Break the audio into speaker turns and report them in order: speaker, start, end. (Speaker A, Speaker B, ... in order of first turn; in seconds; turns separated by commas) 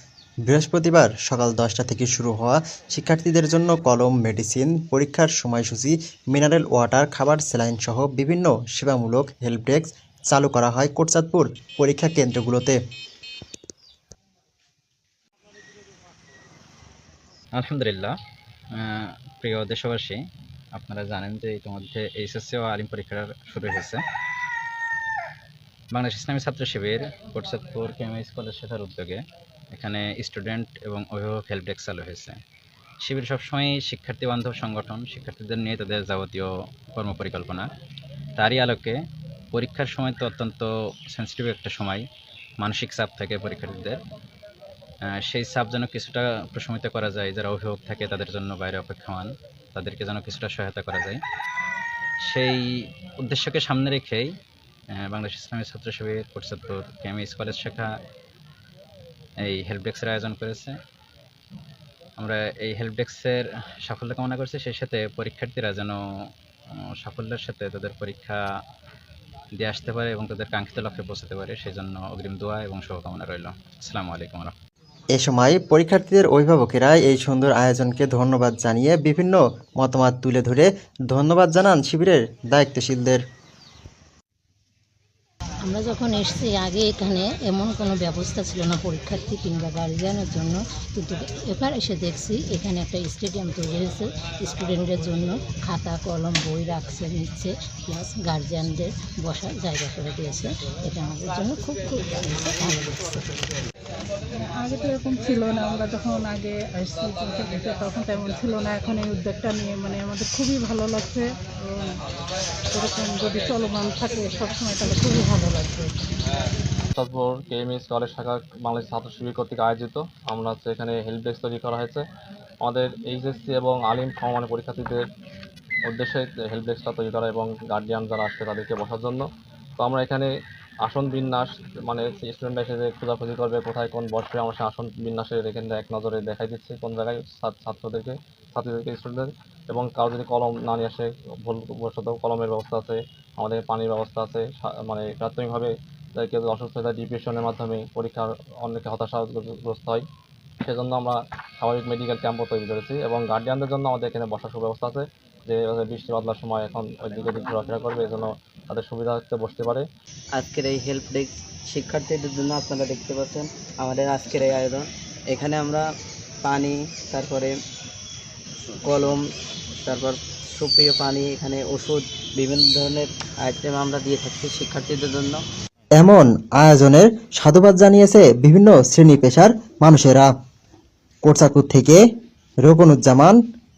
Speaker A: 0.5-12.8, Speaker B: 17.6-18.1, Speaker B: 18.7-20.2, Speaker B: 20.8-24.0, Speaker B: 25.9-29.2, Speaker B: 29.7-32.4, Speaker B: 33.0-37.7, Speaker B: 38.4-39.0, Speaker B: 39.5-42.0, Speaker B: 42.6-44.0, Speaker B: 45.1-51.2, Speaker B: 52.3-52.6, Speaker B: 53.2-54.3, Speaker B: 55.0-57.9, Speaker B: 59.4-60.8, Speaker B: 62.2-66.0, Speaker B: 66.8-68.4, Speaker B: 69.6-74.6, Speaker A: 75.2-83.2, Speaker C: 85.6-103.4, Speaker D: 104.4-111.9, Speaker D: 112.7-116.0, Speaker E: 116.9-122.0, Speaker E: 122.6-125.0, Speaker E: 125.9-129.2, Speaker E: 129.8-130.3, Speaker E: 130.8-150.0, Speaker E: 150.6-159.9, Speaker F: 160.3-165.9, Speaker F: 166.4-167.6, Speaker F: 168.8-169.2, Speaker F: 169.8-175.4, Speaker A: 176.0-180.3, Speaker A: 181.2-182.0, Speaker A: 182.6-183.4